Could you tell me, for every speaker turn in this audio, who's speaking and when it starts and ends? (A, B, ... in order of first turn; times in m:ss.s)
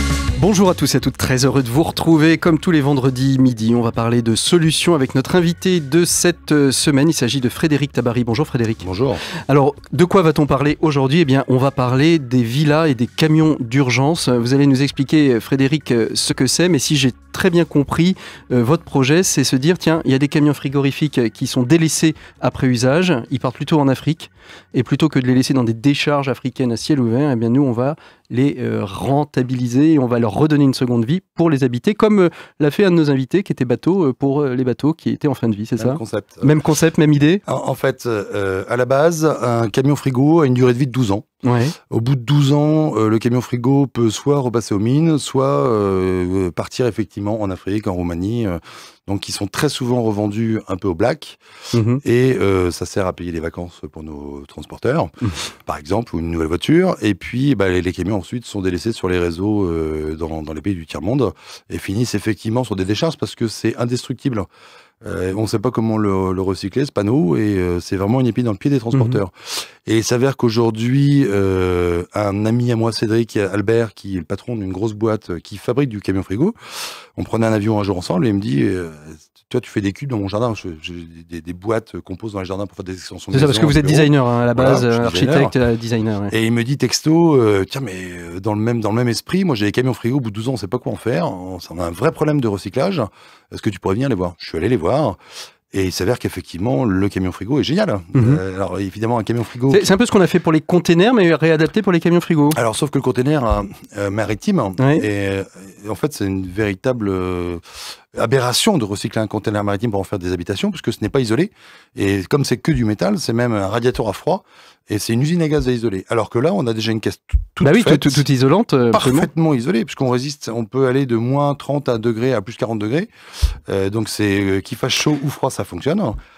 0:00.4-0:08.9 A
0:08.8-0:09.2 B
0:09.5-0:37.4 A
0:35.8-0:36.6 B
0:37.4-0:41.3 B
0:41.4-0:41.8 A
0:41.9-0:51.4 B
0:51.7-0:52.0 A
0:52.0-1:04.5 B
1:05.0-1:25.5 B
1:08.9-1:09.2 A
1:23.3-1:26.3 A
1:26.3-1:35.2 B
1:35.7-1:39.9 B
1:38.1-1:38.4 A
1:39.7-1:42.6 A
1:42.5-1:58.2 B
1:44.8-1:45.0 A
1:57.6-1:59.3 A
1:58.9-2:06.2 B